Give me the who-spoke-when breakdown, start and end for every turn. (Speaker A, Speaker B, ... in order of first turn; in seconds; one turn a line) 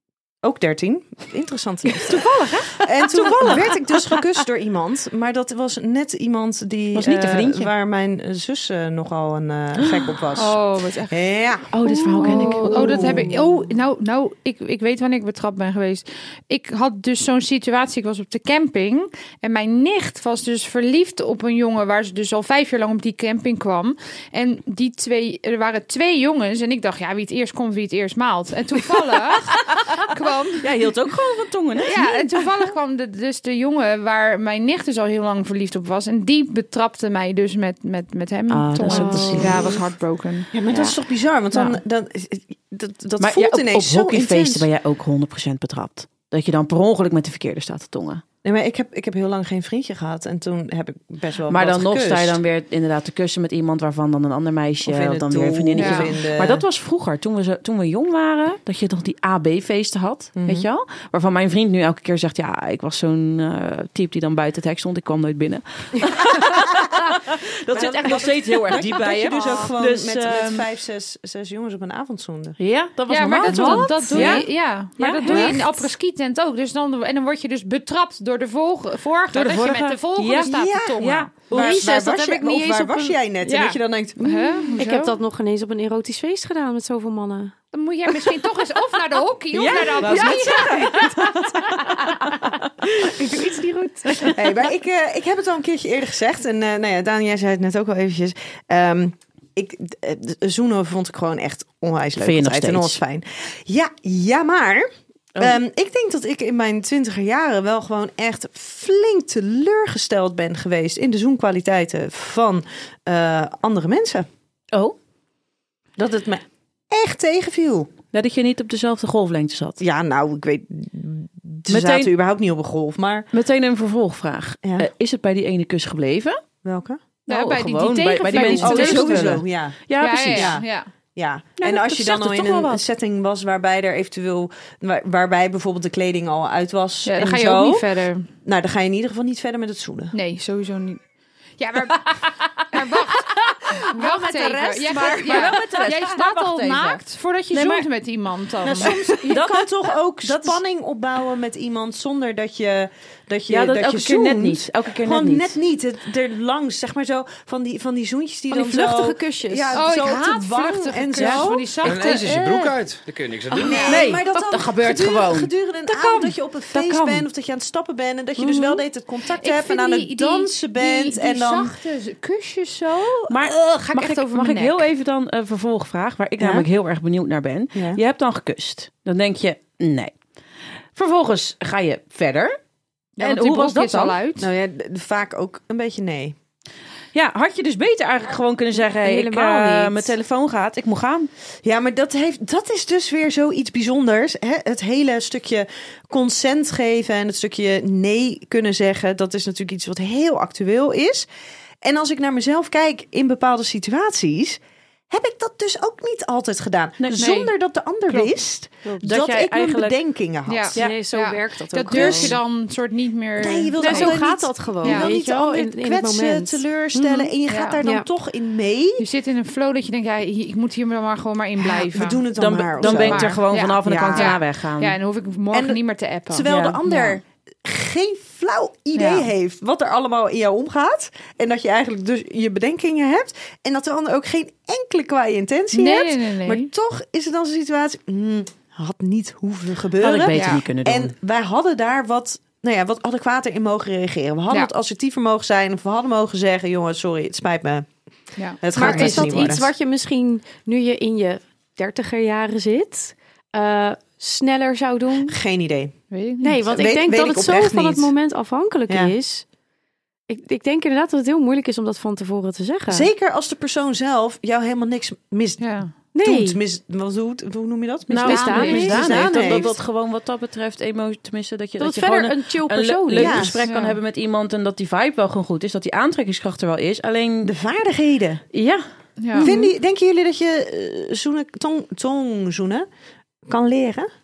Speaker A: 0.4-13.4
Speaker B: 2.2-3.7
Speaker B: 6.9-7.7
Speaker B: 9.8-10.0
Speaker C: 10.3-11.1
Speaker B: 11.7-13.3
Speaker C: 12.2-30.7
Speaker B: 30.6-32.1
Speaker C: 31.9-40.5
Speaker B: 38.5-39.7
Speaker D: 38.8-39.7
Speaker A: 38.9-39.9
Speaker A: 40.5-44.7
Speaker B: 43.2-48.2
Speaker A: 48.4-52.4
Speaker B: 51.5-70.6
Speaker A: 54.8-56.6
Speaker C: 55.8-56.1
Speaker A: 60.4-60.7
Speaker A: 67.7-72.6
Speaker B: 72.6-74.5
Speaker C: 73.1-81.3
Speaker A: 73.5-74.4
Speaker D: 73.5-74.4
Speaker B: 75.0-75.6
Speaker D: 75.2-75.7
Speaker B: 79.3-81.5
Speaker A: 80.4-84.2
Speaker D: 81.5-83.2
Speaker C: 83.4-85.1
Speaker D: 84.2-87.5
Speaker C: 87.7-90.8
Speaker B: 89.5-91.7
Speaker A: 90.0-91.0
Speaker D: 90.1-91.3
Speaker D: 91.9-94.4
Speaker A: 94.2-114.3
Speaker B: 102.2-103.0
Speaker A: 116.0-117.9
Speaker B: 118.1-119.8
Speaker A: 119.8-123.3
Speaker B: 121.7-122.1
Speaker B: 123.3-126.4
Speaker A: 124.6-124.9
Speaker A: 126.6-127.0
Speaker C: 127.3-129.3
Speaker B: 127.3-130.6
Speaker A: 128.3-130.6
Speaker C: 130.0-130.9
Speaker A: 131.2-140.1
Speaker B: 131.6-132.8
Speaker C: 137.0-138.3
Speaker C: 140.1-141.0
Speaker C: 141.6-149.0
Speaker B: 144.0-147.0
Speaker D: 144.0-145.6
Speaker B: 147.5-147.9
Speaker A: 148.6-161.7
Speaker B: 148.8-150.6
Speaker B: 153.5-155.5
Speaker D: 158.5-159.8
Speaker C: 159.7-162.7
Speaker B: 161.2-161.6
Speaker E: 161.8-164.0
Speaker D: 163.5-163.8
Speaker A: 163.6-171.8
Speaker C: 163.7-164.0
Speaker B: 163.8-167.2
Speaker D: 168.4-168.8
Speaker C: 169.4-174.8
Speaker B: 173.3-180.1
Speaker A: 176.4-176.7
Speaker A: 177.7-178.0
Speaker B: 180.9-182.6
Speaker C: 183.2-184.5
Speaker B: 183.2-184.2
Speaker A: 184.4-186.3
Speaker B: 187.1-191.3
Speaker D: 188.9-190.1
Speaker A: 191.6-201.3
Speaker A: 201.8-210.8
Speaker B: 207.0-207.2
Speaker C: 207.1-207.5
Speaker B: 208.9-210.0
Speaker C: 210.5-214.2
Speaker D: 210.8-212.3
Speaker A: 211.9-212.4
Speaker A: 213.4-219.0
Speaker D: 213.8-217.3
Speaker C: 214.8-215.1
Speaker C: 217.5-217.8
Speaker C: 219.0-227.2
Speaker A: 221.6-224.4
Speaker B: 222.3-225.0
Speaker A: 225.5-247.9
Speaker B: 226.4-226.8
Speaker C: 228.9-229.3
Speaker C: 235.7-236.7
Speaker B: 240.0-241.1
Speaker C: 240.3-240.6
Speaker C: 248.4-249.5
Speaker A: 248.6-249.7
Speaker D: 248.7-255.3
Speaker A: 255.3-255.9
Speaker C: 256.1-256.8
Speaker D: 256.4-259.4
Speaker A: 256.7-258.1
Speaker A: 258.9-259.1
Speaker D: 260.3-263.1
Speaker A: 262.9-269.8
Speaker C: 265.6-265.9
Speaker D: 266.1-266.6
Speaker B: 268.1-277.5
Speaker D: 268.2-269.6
Speaker C: 268.3-268.9
Speaker D: 271.8-273.6
Speaker A: 273.1-273.6
Speaker C: 273.6-274.0
Speaker A: 277.4-278.4
Speaker B: 278.5-278.8
Speaker C: 279.2-279.5
Speaker D: 279.4-279.7
Speaker A: 279.4-282.9
Speaker A: 283.4-284.1